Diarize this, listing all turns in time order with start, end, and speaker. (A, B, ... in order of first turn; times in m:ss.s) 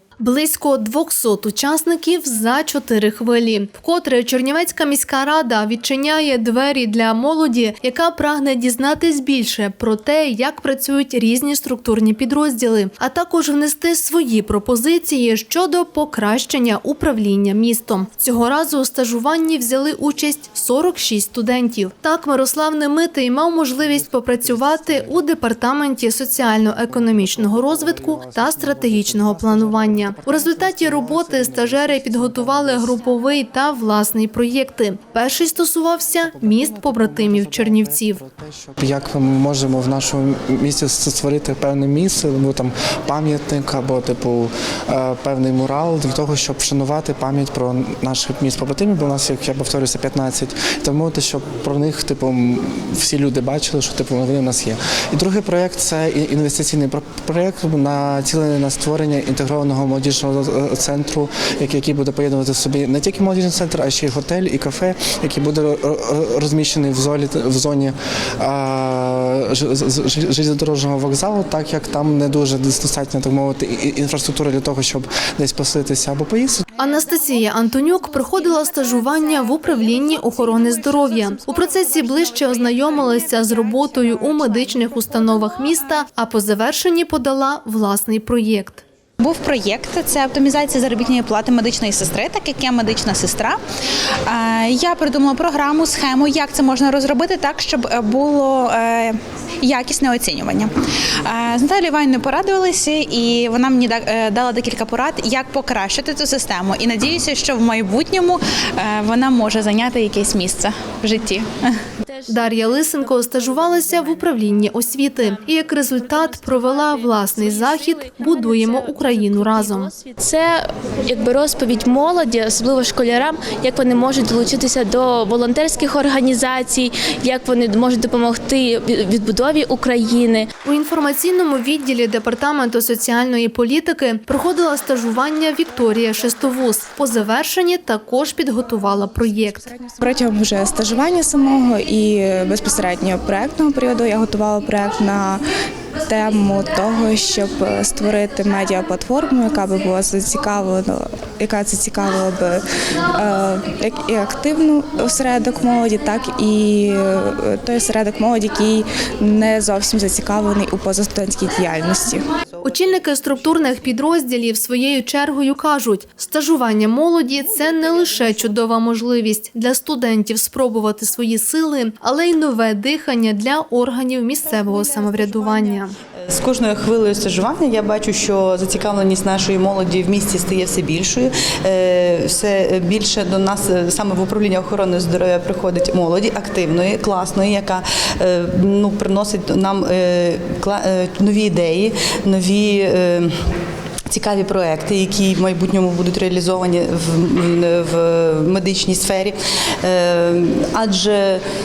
0:00.2-0:38.2 A
0:23.8-0:25.3 B
0:26.5-0:33.0 B
0:36.2-1:16.6 B
1:16.8-1:28.8 A
1:22.8-1:23.2 C
1:29.6-1:33.6 D
1:34.3-1:40.7 D
1:41.3-1:48.4 D
1:48.9-1:49.5 D
1:49.7-1:50.0 C
1:50.1-1:50.5 D
1:50.9-1:51.3 C
1:52.0-1:54.6 C
1:52.3-1:59.9 A
1:55.2-2:10.5 C
2:10.6-2:19.8 A
2:19.8-2:25.4 E
2:26.0-2:42.3 E
2:42.6-2:43.9 F
2:42.6-2:55.9 A
2:47.4-2:48.6 F
2:54.4-3:13.3 F
3:14.1-3:21.4 F